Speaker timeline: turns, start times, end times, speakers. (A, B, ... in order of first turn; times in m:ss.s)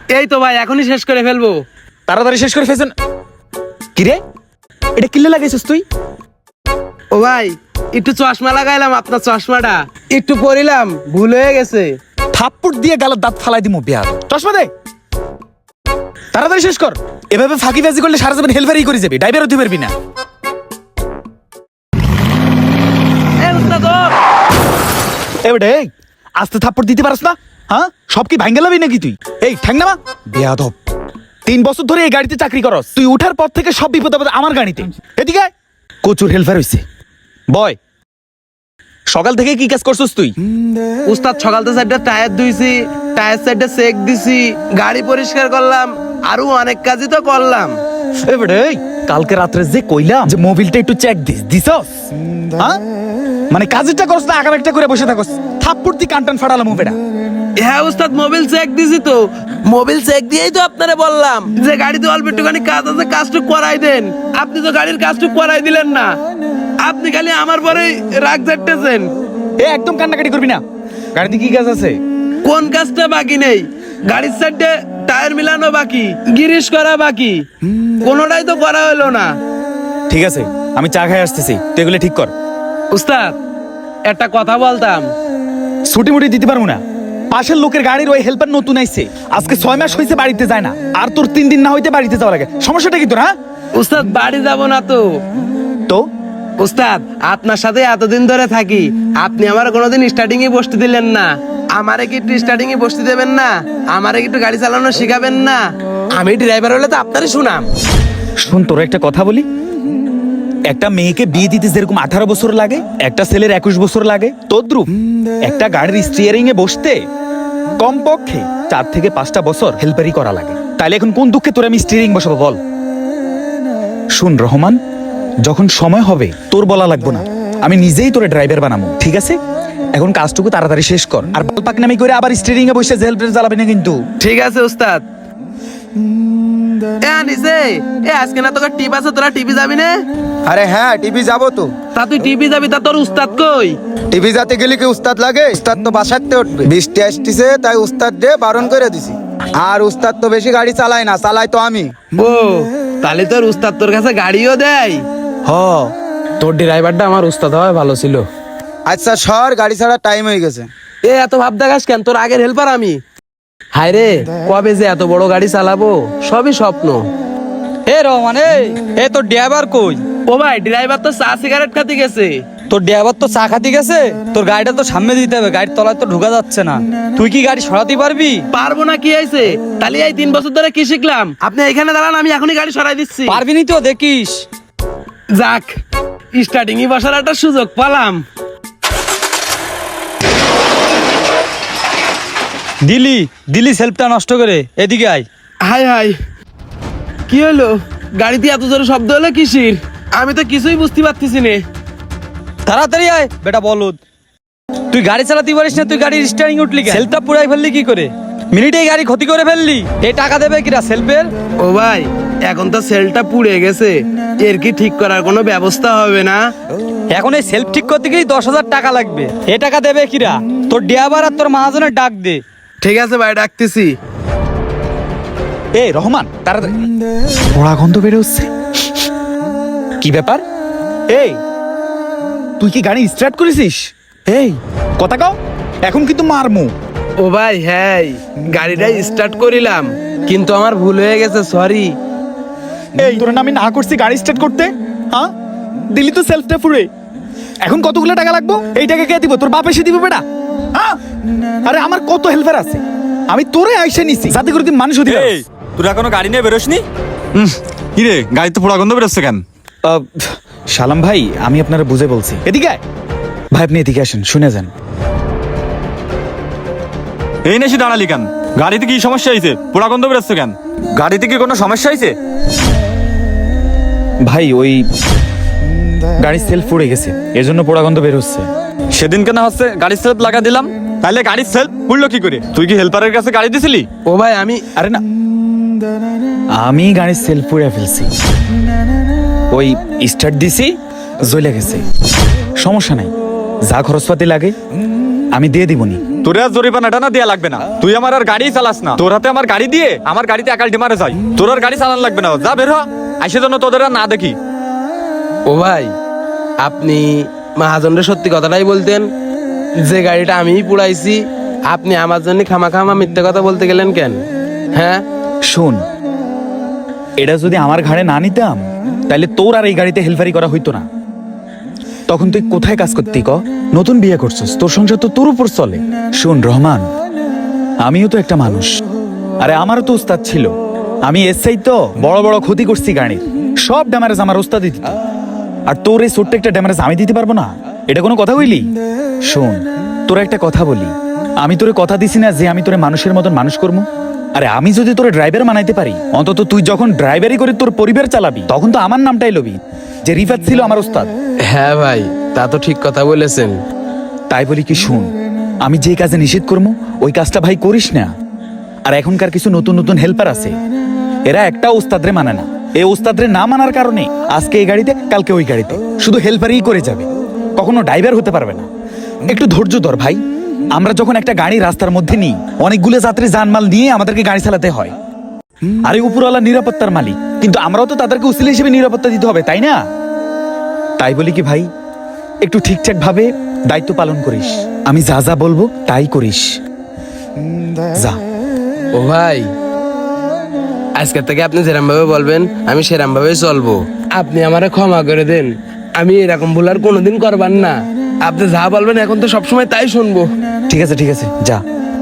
0:00.1-0:01.6 A
0:02.1-0:02.9 B
0:05.0-0:05.8 B
0:07.1-0:12.0 A
0:12.3-0:14.7 B
0:16.3-0:19.9 B
0:23.4-0:24.2 A
0:25.4-0:30.8 B
0:31.5-0:35.5 B
0:36.0-0:36.8 B
0:37.5-0:37.8 B
0:39.1-0:40.4 B
0:41.1-0:47.8 A
0:48.2-0:51.9 B
0:53.5-0:57.0 B
0:57.6-1:06.1 A
1:06.8-1:09.1 A
1:09.6-1:10.6 B
1:11.2-1:12.0 B
1:12.4-1:17.4 A
1:18.0-1:19.3 A
1:20.1-1:22.3 B
1:22.9-1:23.4 A
1:24.0-1:25.1 A
1:25.8-1:33.3 B
1:33.8-1:35.0 A
1:36.6-1:45.6 A
1:46.1-1:47.7 A
1:48.4-1:49.5 B
1:50.7-1:54.9 B
1:55.4-1:57.0 B
1:57.8-2:02.6 B
2:04.1-2:04.8 B
2:05.4-2:09.4 B
2:09.9-2:14.0 B
2:14.2-2:15.0 A
2:17.0-2:20.0 A
2:20.5-2:21.7 C
2:21.9-2:23.8 A
2:24.1-2:32.0 C
2:32.2-2:35.0 A
2:35.5-2:35.9 C
2:36.4-2:38.2 A
2:38.9-2:40.7 C
2:41.0-2:43.0 A
2:43.7-2:47.0 A
2:47.9-2:50.0 D
2:50.3-2:52.4 A
2:52.7-2:58.4 D
2:58.5-3:03.4 A
3:03.3-3:04.4 D
3:05.3-3:05.7 A
3:06.3-3:08.2 A
3:12.8-3:15.3 D
3:15.6-3:16.2 A
3:17.3-3:21.6 A
3:22.6-3:24.0 D
3:24.9-3:31.3 D
3:31.6-3:36.5 A
3:37.1-3:42.4 D
3:42.8-3:44.0 A
3:45.8-3:48.5 B
3:50.0-3:50.4 B
3:51.1-3:51.4 B
3:52.6-3:56.7 B
3:57.2-4:02.0 A
4:03.0-4:05.3 B
4:05.9-4:06.9 B
4:07.6-4:11.0 B
4:11.6-4:15.4 B
4:15.1-4:19.4 E
4:19.8-4:22.8 B
4:23.5-4:24.7 B
4:27.4-4:32.2 E
4:34.2-4:34.8 B
4:36.2-4:38.5 B
4:38.9-4:43.9 E
4:44.1-4:44.6 A
4:44.8-4:45.0 B
4:46.6-4:48.1 B
4:49.5-4:51.8 B
4:52.6-4:53.1 B
4:53.7-4:54.6 B
4:55.3-4:56.0 B
4:56.2-5:04.4 E
5:05.5-5:05.9 A
5:06.6-5:09.1 A
5:09.8-5:15.0 A
5:15.4-5:15.8 B
5:17.2-5:20.9 B
5:22.1-5:26.9 B
5:27.8-5:28.8 B
5:29.4-5:30.5 B
5:31.0-5:35.0 B
5:35.7-5:38.7 B
5:39.2-5:51.1 B
5:51.5-5:53.6 A
5:54.3-5:58.1 B
5:58.9-6:00.6 B
6:01.3-6:08.7 B
6:09.3-6:10.2 B
6:10.7-6:14.9 B
6:15.8-6:19.8 B
6:21.0-6:21.7 B
6:22.4-6:26.6 B
6:28.9-6:29.5 A
6:31.0-6:40.3 A
6:40.7-6:41.6 B